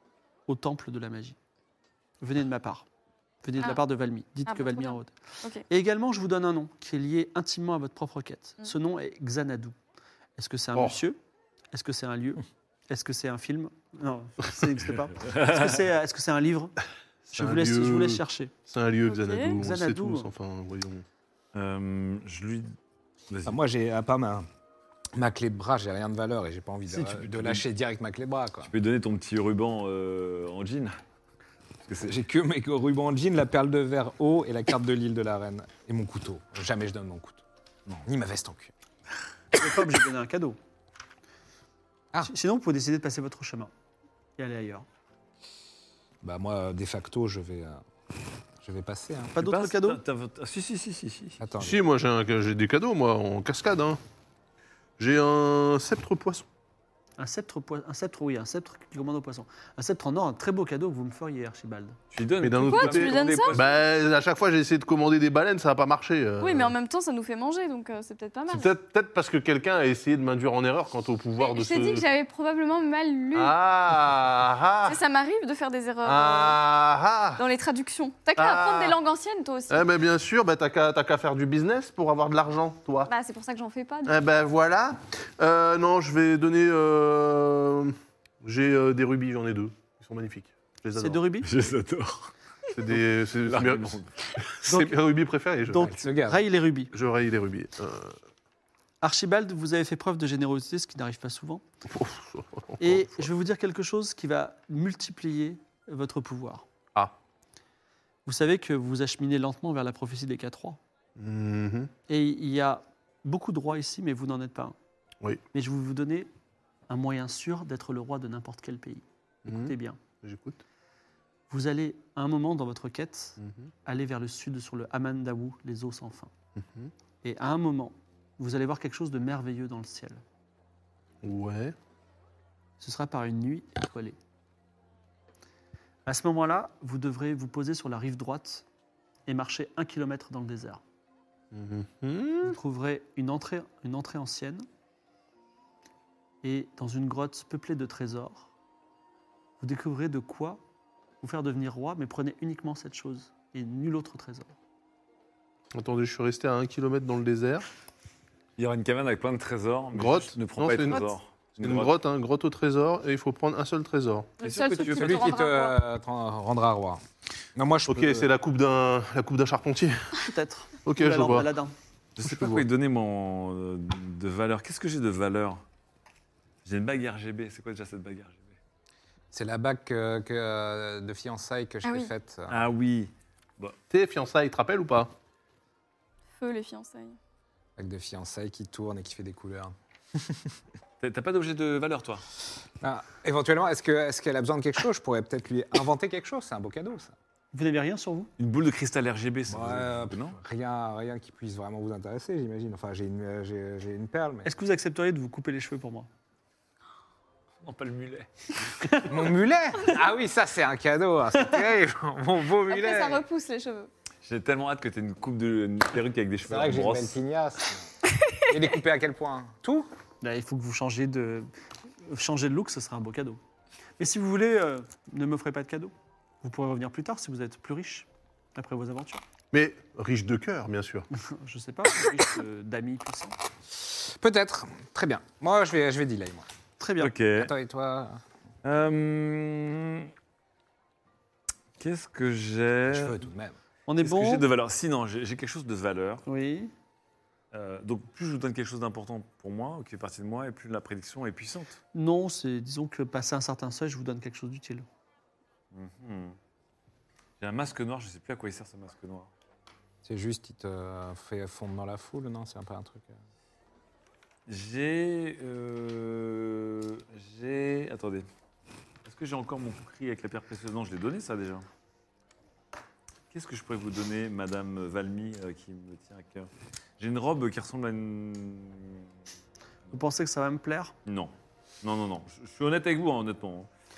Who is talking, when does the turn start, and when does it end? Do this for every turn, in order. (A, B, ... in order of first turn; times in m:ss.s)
0:00.5-0:01.4 A
0:02.2-0:02.9 A
0:03.4-0:05.1 A
0:04.5-0:05.6 B
0:05.7-0:09.8 A
0:10.4-0:11.2 A
0:11.7-0:16.7 A
0:15.2-0:15.8 C
0:17.3-0:18.5 A
0:17.4-0:21.0 D
0:19.1-0:19.6 B
0:19.6-0:20.3 A
0:21.5-0:22.8 C
0:23.3-0:23.6 C
0:23.4-0:24.5 E
0:25.2-0:28.7 E
0:26.9-0:27.6 C
0:28.6-0:30.9 C
0:31.9-0:32.2 C
0:32.0-0:38.7 E
0:39.6-0:40.6 A
0:42.2-0:43.7 A
0:44.4-0:44.9 A
0:46.2-0:47.8 E
0:48.6-0:49.4 E
0:49.4-0:50.0 A
0:49.4-0:51.4 C
0:51.4-0:51.8 E
0:51.6-0:54.0 D
0:55.0-0:56.5 D
0:57.2-1:02.0 A
1:02.1-1:03.8 C
1:02.4-1:06.7 D
1:02.6-1:03.6 B
1:06.4-1:08.7 B
1:08.5-1:12.1 D
1:11.4-1:13.6 B
1:13.3-1:15.0 D
1:14.8-1:16.6 B
1:16.0-1:17.4 D
1:17.4-1:19.9 B
1:18.4-1:19.0 D
1:19.7-1:23.1 D
1:23.1-1:24.2 B
1:24.1-1:31.2 D
1:31.0-1:31.5 A
1:31.4-1:32.3 C
1:32.7-1:34.0 D
1:32.9-1:34.4 C
1:34.5-1:35.9 D
1:34.7-1:35.0 A
1:35.7-1:36.9 A
1:35.7-1:36.4 E
1:36.9-1:38.2 D
1:39.0-1:41.6 A
1:41.9-1:43.3 D
1:42.8-1:46.7 A
1:48.3-1:50.8 A
1:51.2-1:51.9 D
1:52.1-1:54.8 A
1:55.5-1:56.3 A
1:56.9-2:00.0 A
1:59.5-2:00.6 D
2:01.5-2:06.3 A
2:03.4-2:03.7 D
2:06.6-2:06.9 D
2:07.2-2:10.2 A
2:11.2-2:11.8 D
2:12.8-2:14.2 A
2:16.1-2:18.6 A
2:19.3-2:20.8 A
2:21.5-2:22.6 D
2:22.4-2:24.6 A
2:26.4-2:28.5 A
2:29.6-2:30.6 A
2:31.2-2:34.5 A
2:35.7-2:37.7 D
2:38.6-2:42.0 C
2:40.0-2:41.1 D
2:41.6-2:44.3 D
2:44.4-2:45.8 B
2:44.4-2:45.4 C
2:44.8-2:47.0 E
2:47.6-2:48.3 E
2:47.9-2:50.2 D
2:50.2-2:51.7 A
2:50.8-2:51.5 D
2:52.2-2:55.6 C
2:52.2-2:52.7 D
2:56.6-2:58.6 C
2:59.3-3:02.7 E
3:01.8-3:02.1 B
3:02.5-3:03.8 C
3:03.9-3:05.1 D
3:06.4-3:07.2 B
3:07.8-3:10.4 E
3:11.0-3:12.2 C
3:12.8-3:17.1 E
3:17.5-3:18.3 A
3:18.4-3:20.4 C
3:19.5-3:24.5 E
3:24.4-3:26.1 A
3:27.6-3:28.8 C
3:29.1-3:33.2 E
3:32.7-3:33.9 B
3:34.2-3:37.2 C
3:36.4-3:39.9 E
3:40.2-3:41.5 A
3:42.1-3:43.4 A
3:44.0-3:49.2 A
3:49.5-3:51.1 D
3:51.1-3:53.4 A
3:54.0-3:56.5 E
3:56.8-3:57.1 A
3:57.0-3:57.5 C
3:57.4-3:58.2 E
3:58.6-4:00.1 C
4:01.8-4:03.2 C
4:02.9-4:03.6 E
4:03.9-4:04.4 A
4:04.0-4:06.2 C
4:06.3-4:06.7 A
4:07.5-4:11.8 C
4:11.9-4:14.9 A
4:15.7-4:16.4 C
4:17.4-4:19.3 C
4:20.0-4:23.2 E
4:24.5-4:28.3 C
4:29.0-4:31.7 C
4:33.3-4:39.0 C
4:39.9-4:40.9 A
4:41.1-4:43.7 C